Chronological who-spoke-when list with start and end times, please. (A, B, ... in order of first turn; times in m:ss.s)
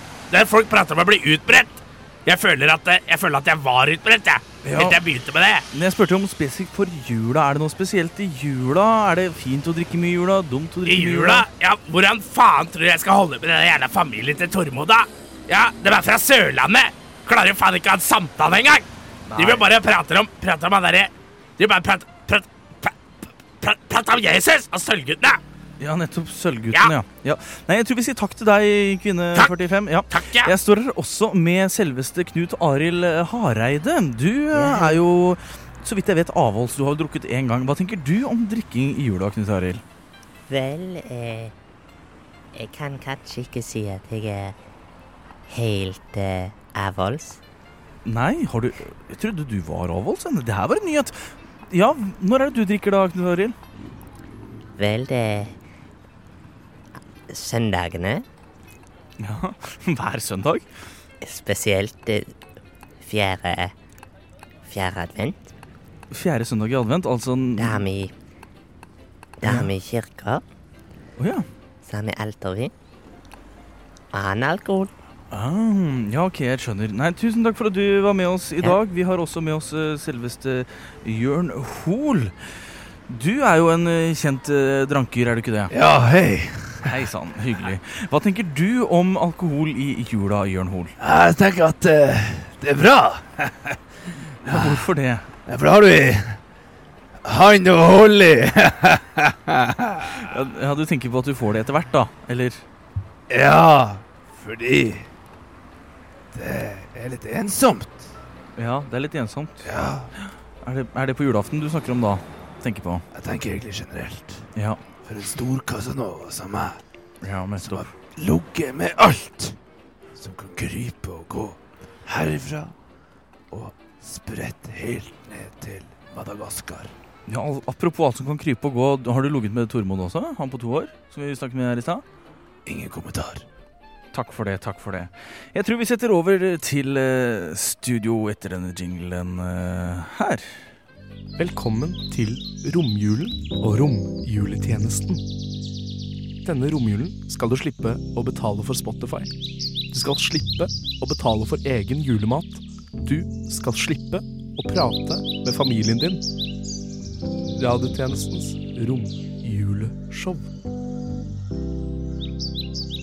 0:00.3-0:05.6 A
0:04.6-0:05.0 B
0:05.7-0:11.5 B
0:10.8-0:23.0 A
0:19.3-0:19.7 B
0:23.6-0:25.4 A
0:25.8-0:39.8 B
0:30.1-0:30.5 A
0:34.5-0:35.0 C
0:40.5-0:41.5 C
0:42.5-0:44.5 C
0:45.5-0:47.4 C
0:48.0-0:53.6 B
0:54.8-0:55.6 C
0:57.3-0:58.2 C
0:59.2-1:00.6 B
1:01.2-1:02.3 C
1:03.0-1:03.7 C
1:04.6-1:05.5 C
1:06.1-1:07.8 B
1:07.6-1:08.1 C
1:09.4-1:10.4 C
1:09.4-1:09.7 B
1:11.2-1:11.4 B
1:11.8-1:12.7 C
1:14.1-1:14.9 C
1:15.3-1:22.3 B
1:23.1-1:25.7 B
1:25.7-1:26.9 D
1:26.8-1:30.9 B
1:31.0-1:33.8 D
1:34.4-1:34.9 D
1:34.4-1:35.3 B
1:35.5-1:36.4 D
1:37.2-1:40.2 D
1:40.2-1:42.6 B
1:43.3-1:45.1 D
1:46.3-1:48.1 D
1:48.6-1:53.0 B
1:49.6-1:50.1 D
1:53.1-1:54.4 D
1:55.0-1:56.8 D
1:57.2-1:57.9 B
1:57.6-1:59.6 D
2:00.2-2:02.7 D
2:03.5-2:06.9 D
2:07.3-2:12.0 B
2:12.6-2:13.4 D
2:14.1-2:20.6 B
2:21.4-2:25.2 E
2:26.4-2:29.3 E
2:29.9-2:36.2 E
2:37.5-2:40.5 E